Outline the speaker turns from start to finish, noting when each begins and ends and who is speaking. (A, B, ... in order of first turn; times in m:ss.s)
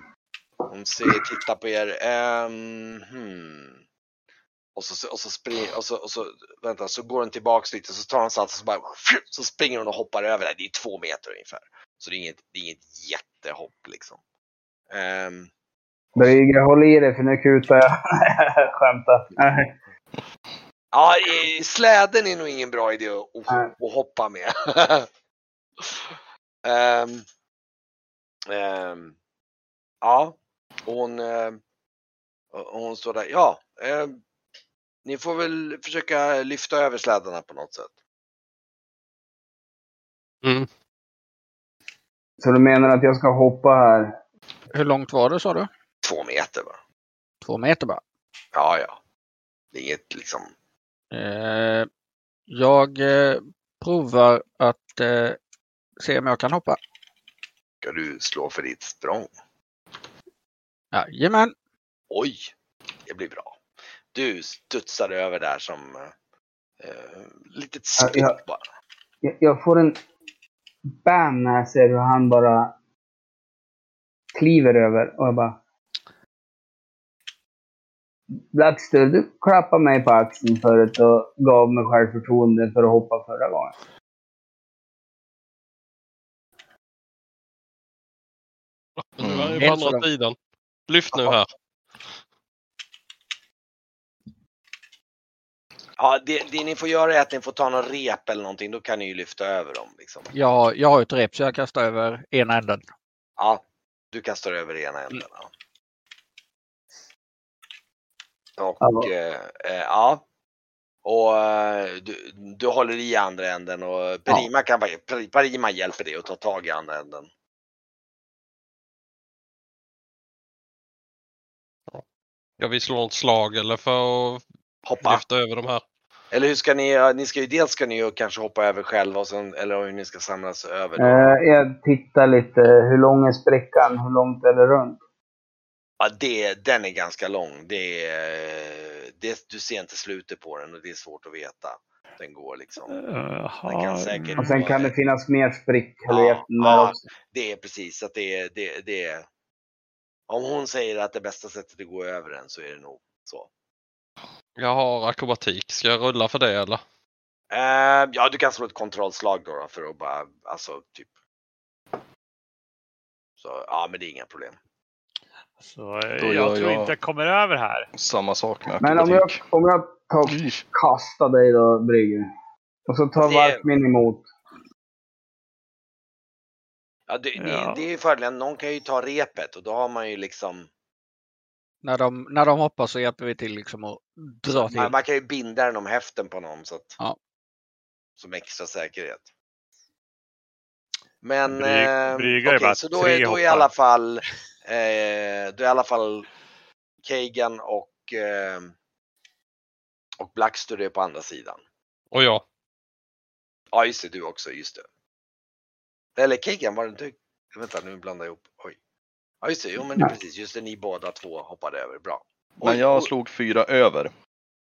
0:00.7-0:03.8 A
0:04.8-0:14.2 A
0:14.9-0:15.5 A
0:16.1-0:19.7 B
0:20.9-0:25.1 A
0:25.8-0:26.1 A
0:26.6-0:27.2 A
0:28.5-0:29.2 A
0:30.0-0:31.6 A
0:32.5-0:34.2 A
0:35.0-0:37.9 A
0:42.4-0:44.2 B
0:44.7-0:45.7 C
0:46.0-0:46.8 A
0:47.4-0:48.0 C
0:48.5-0:49.0 A
0:49.7-0:50.5 A
0:51.1-0:51.9 C
0:52.5-0:55.4 C
0:56.0-0:56.8 C
0:57.8-0:59.3 A
1:00.9-1:01.5 C
1:02.1-1:02.5 A
1:03.1-1:03.6 A
1:04.1-1:06.1 A
1:06.8-1:08.6 A
1:08.0-1:08.3 B
1:09.2-1:10.0 B
1:11.0-1:12.7 B
1:14.3-1:15.6 B
1:18.5-1:23.7 B
1:29.0-1:30.4 D
1:29.2-1:29.6 E
1:29.6-1:30.0 C
1:30.9-1:31.5 D
1:36.0-1:40.3 A
1:40.3-1:42.8 C
1:44.1-1:45.5 A
1:48.6-1:50.2 A
1:48.8-1:49.1 B
1:51.0-1:57.3 A
2:02.6-2:04.4 D
2:04.8-2:05.2 A
2:05.0-2:05.8 D
2:06.3-2:11.4 A
2:11.0-2:15.0 B
2:16.0-2:23.0 A
2:22.9-2:24.7 F
2:23.7-2:24.9 A
2:24.4-2:27.0 B
2:26.1-2:29.3 A
2:30.3-2:33.5 A
2:34.6-2:36.8 D
2:37.5-2:41.1 A
2:43.4-2:44.6 A
2:45.6-2:47.9 F
2:46.2-2:46.9 E
2:48.0-2:49.4 E
2:48.8-2:52.3 B
2:50.2-2:50.6 E
2:52.9-2:54.3 B
2:53.2-2:53.6 A
2:57.1-3:00.7 A
2:57.4-2:57.8 F
3:01.8-3:04.9 C
3:04.6-3:07.0 A
3:08.2-3:09.3 A
3:11.2-3:16.3 A
3:11.5-3:13.7 F
3:17.0-3:18.7 A
3:20.2-3:21.6 A
3:22.1-3:22.4 D
3:23.7-3:24.8 A
3:26.2-3:28.8 A
3:29.4-3:33.1 A
3:32.6-3:34.1 E